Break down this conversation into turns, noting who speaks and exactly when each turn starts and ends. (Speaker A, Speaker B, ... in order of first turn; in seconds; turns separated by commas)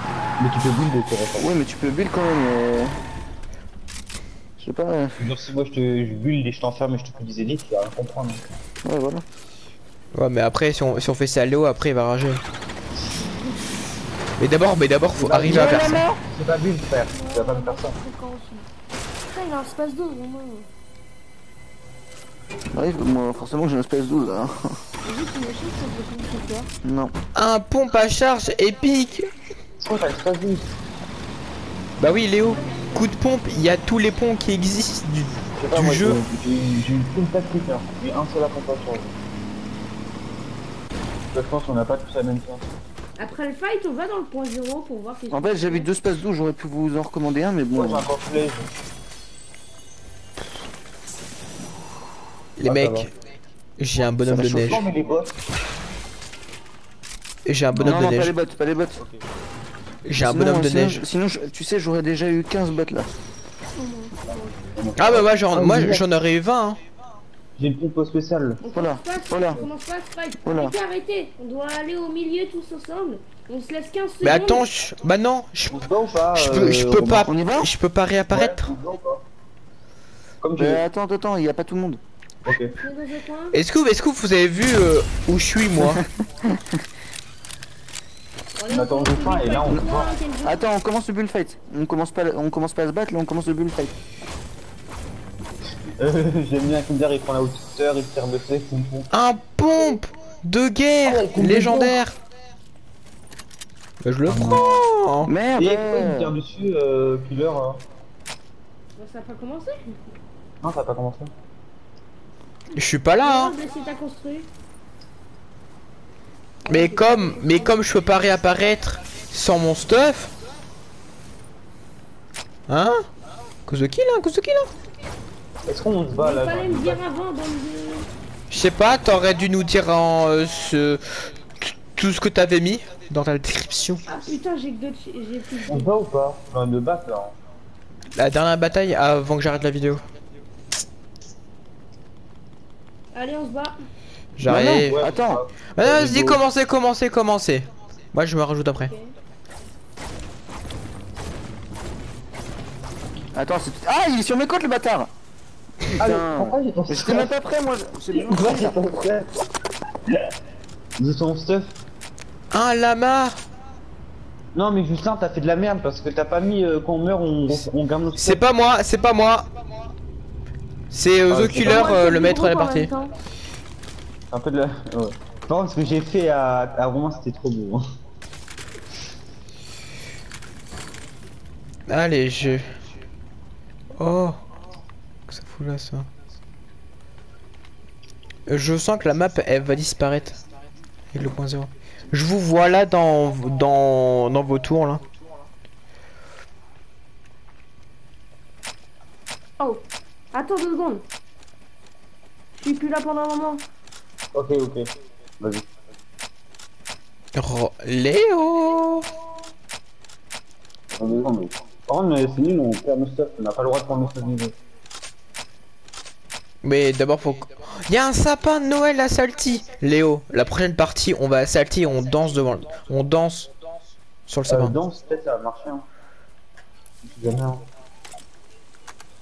Speaker A: 0.4-1.5, Speaker B: 1.4-3.0, Speaker B: 4.6-5.2, Speaker A: 5.2-8.4, Speaker B: 8.8-9.2, Speaker C: 10.1-12.4, Speaker C: 14.4-16.0, Speaker A: 15.2-18.0, Speaker B: 15.4-16.2, Speaker D: 17.1-18.7, Speaker D: 19.3-20.7, Speaker B: 22.7-24.8, Speaker D: 25.0-26.7, Speaker B: 26.8-27.1, Speaker C: 27.4-29.3, Speaker A: 29.8-30.7, Speaker C: 32.0-36.2, Speaker D: 32.5-33.0, Speaker A: 35.6-39.1, Speaker A: 41.3-42.6, Speaker D: 43.2-45.9, Speaker B: 45.3-48.1, Speaker A: 47.7-48.7, Speaker C: 52.6-53.1, Speaker A: 52.6-53.1, Speaker C: 53.8-54.8, Speaker B: 54.2-54.8, Speaker A: 54.6-55.3, Speaker C: 57.5-58.3, Speaker B: 57.8-59.0, Speaker A: 57.8-58.0, Speaker C: 60.1-61.0, Speaker B: 60.2-63.1, Speaker D: 63.8-64.6, Speaker A: 64.3-66.0, Speaker C: 65.0-66.8, Speaker A: 67.6-68.6, Speaker D: 68.6-74.7, Speaker B: 68.7-69.6, Speaker B: 70.5-70.8, Speaker C: 74.2-78.7, Speaker A: 75.7-77.3, Speaker B: 77.3-77.7, Speaker A: 78.3-79.2, Speaker A: 80.4-80.8, Speaker B: 80.6-82.0, Speaker A: 82.5-82.7, Speaker D: 82.8-83.6, Speaker C: 83.5-86.0, Speaker B: 86.4-86.8, Speaker D: 88.6-90.7, Speaker A: 88.7-90.1, Speaker B: 90.4-93.9, Speaker A: 96.0-99.1, Speaker C: 99.1-102.2, Speaker A: 101.0-102.0, Speaker C: 104.0-105.3, Speaker A: 104.3-104.9, Speaker B: 105.3-106.4, Speaker A: 105.5-107.8, Speaker D: 109.0-110.0, Speaker A: 110.6-111.3, Speaker C: 112.8-113.5, Speaker D: 113.2-114.5, Speaker D: 116.7-117.8, Speaker C: 116.7-120.3, Speaker C: 122.7-123.1, Speaker C: 123.7-124.7, Speaker A: 125.7-127.0, Speaker D: 126.2-128.1, Speaker C: 128.5-134.0, Speaker D: 134.1-135.9, Speaker A: 135.7-137.3, Speaker C: 138.2-140.0, Speaker D: 143.1-143.8, Speaker C: 144.4-145.0, Speaker A: 144.5-146.3, Speaker B: 144.5-145.4, Speaker C: 145.8-148.9, Speaker B: 146.0-146.3, Speaker B: 153.3-155.1, Speaker A: 156.0-157.3, Speaker B: 156.0-158.8, Speaker A: 158.1-159.3, Speaker A: 161.0-161.8, Speaker C: 162.5-163.4, Speaker A: 164.6-168.4, Speaker C: 168.2-169.5, Speaker C: 170.9-172.9, Speaker A: 171.3-172.0, Speaker D: 171.5-173.1, Speaker A: 174.3-177.8, Speaker C: 181.9-182.7, Speaker C: 184.0-184.4, Speaker C: 185.3-186.1, Speaker C: 188.5-190.4, Speaker C: 191.1-195.0, Speaker D: 199.6-201.0, Speaker D: 202.6-203.6, Speaker A: 204.3-204.9, Speaker A: 205.4-205.7, Speaker C: 207.3-209.1, Speaker A: 210.9-214.5, Speaker C: 216.6-223.5, Speaker C: 224.3-224.7, Speaker A: 224.5-225.8, Speaker A: 227.0-227.6